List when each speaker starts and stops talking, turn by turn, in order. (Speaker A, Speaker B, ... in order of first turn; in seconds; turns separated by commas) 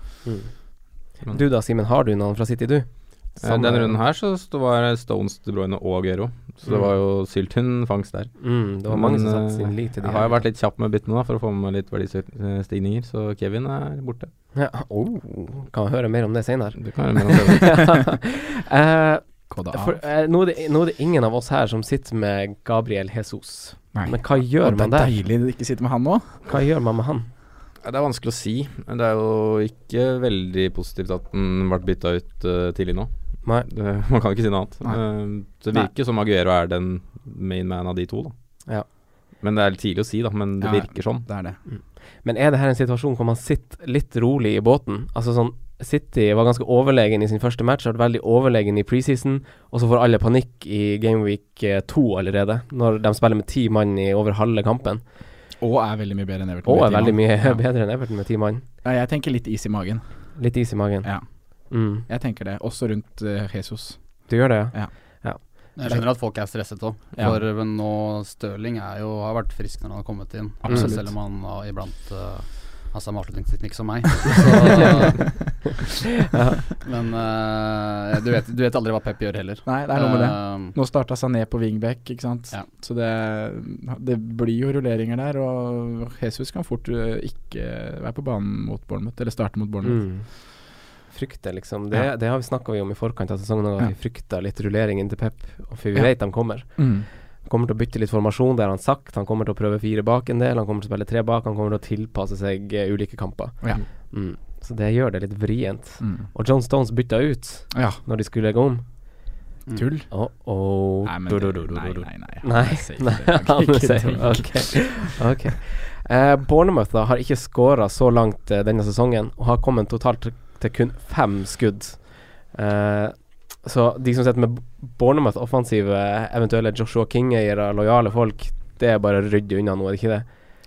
Speaker A: 0.2-3.9, Speaker B: 3.4-14.3, Speaker A: 8.4-10.4, Speaker A: 14.5-25.1, Speaker B: 16.8-17.9, Speaker C: 19.5-20.0, Speaker C: 23.9-26.4, Speaker A: 26.5-27.3, Speaker B: 27.8-38.3, Speaker B: 39.4-41.3, Speaker C: 40.6-41.6, Speaker A: 41.7-55.1, Speaker C: 55.6-57.6, Speaker A: 56.6-58.6, Speaker C: 58.8-60.4, Speaker A: 60.4-61.1, Speaker A: 61.7-62.0, Speaker C: 61.9-64.9, Speaker A: 64.3-65.4, Speaker D: 65.8-75.5, Speaker C: 67.2-67.4, Speaker C: 70.6-71.1, Speaker A: 76.3-76.6, Speaker D: 76.8-80.7, Speaker C: 79.6-90.1, Speaker A: 89.8-108.8, Speaker C: 95.9-97.1, Speaker C: 106.0-106.3, Speaker C: 107.7-108.0, Speaker C: 109.7-110.1, Speaker A: 110.1-130.2, Speaker C: 111.0-115.0